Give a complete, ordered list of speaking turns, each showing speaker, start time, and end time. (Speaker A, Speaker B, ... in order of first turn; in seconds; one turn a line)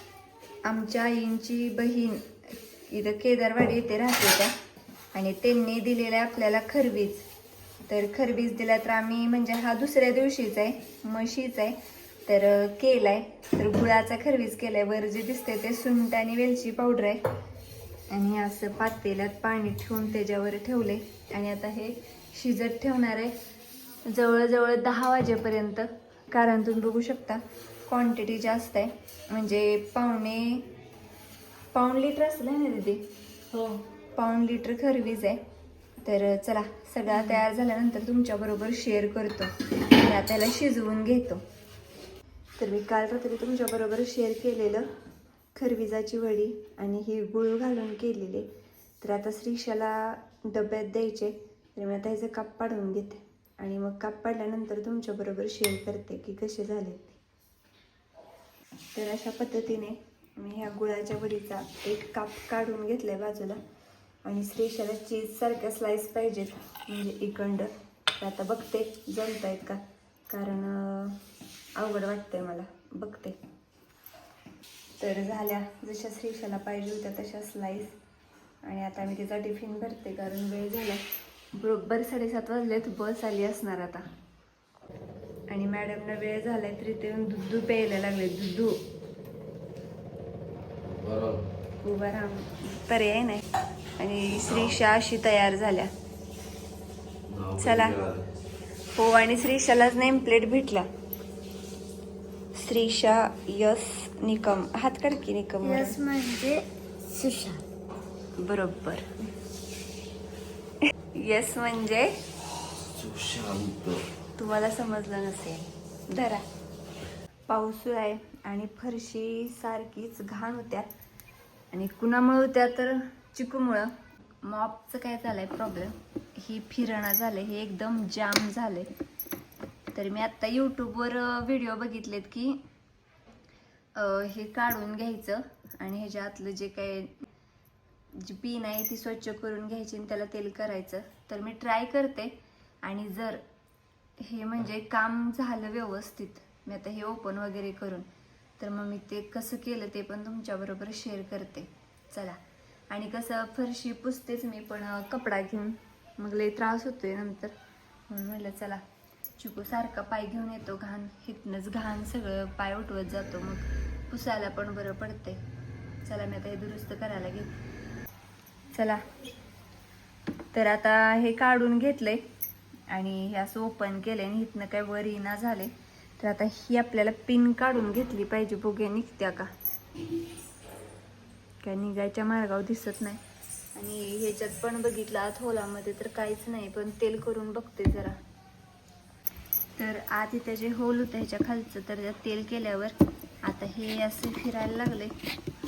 Speaker A: 0.6-2.4
Speaker A: 2.9-4.5
Speaker A: 5.1-7.2
Speaker A: 7.9-17.2
Speaker A: 18.1-23.3
Speaker A: 24.1-30.7
Speaker A: 31.7-33.1
Speaker A: 34.1-35.4
Speaker A: 36.0-41.4
Speaker A: 42.6-44.9
Speaker A: 45.5-48.5
Speaker A: 49.0-57.2
Speaker A: 58.9-63.6
Speaker A: 64.2-71.2
Speaker A: 71.8-73.4
Speaker A: 75.0-77.9
Speaker A: 78.6-81.0
Speaker A: 81.5-84.0
Speaker A: 85.5-88.8
Speaker B: 90.8-91.5
Speaker A: 91.8-93.4
Speaker A: 94.0-95.9
Speaker B: 97.3-98.2
Speaker A: 97.6-97.9
Speaker A: 99.0-100.9
Speaker A: 102.5-106.0
Speaker C: 105.6-107.6
Speaker A: 108.4-109.1
Speaker A: 111.1-112.1
Speaker B: 112.9-114.0
Speaker A: 114.4-116.4
Speaker A: 117.5-120.9
Speaker A: 121.7-123.9
Speaker A: 124.4-128.9
Speaker A: 129.9-132.6
Speaker A: 133.9-137.2
Speaker A: 138.1-143.4
Speaker A: 144.2-148.1
Speaker A: 148.6-152.4
Speaker A: 152.9-157.5
Speaker A: 158.1-158.8
Speaker A: 159.4-165.4
Speaker A: 166.0-167.5
Speaker A: 168.7-169.0
Speaker A: 170.5-172.2
Speaker A: 172.9-179.5
Speaker A: 181.6-183.2
Speaker A: 183.7-188.2
Speaker A: 189.8-195.1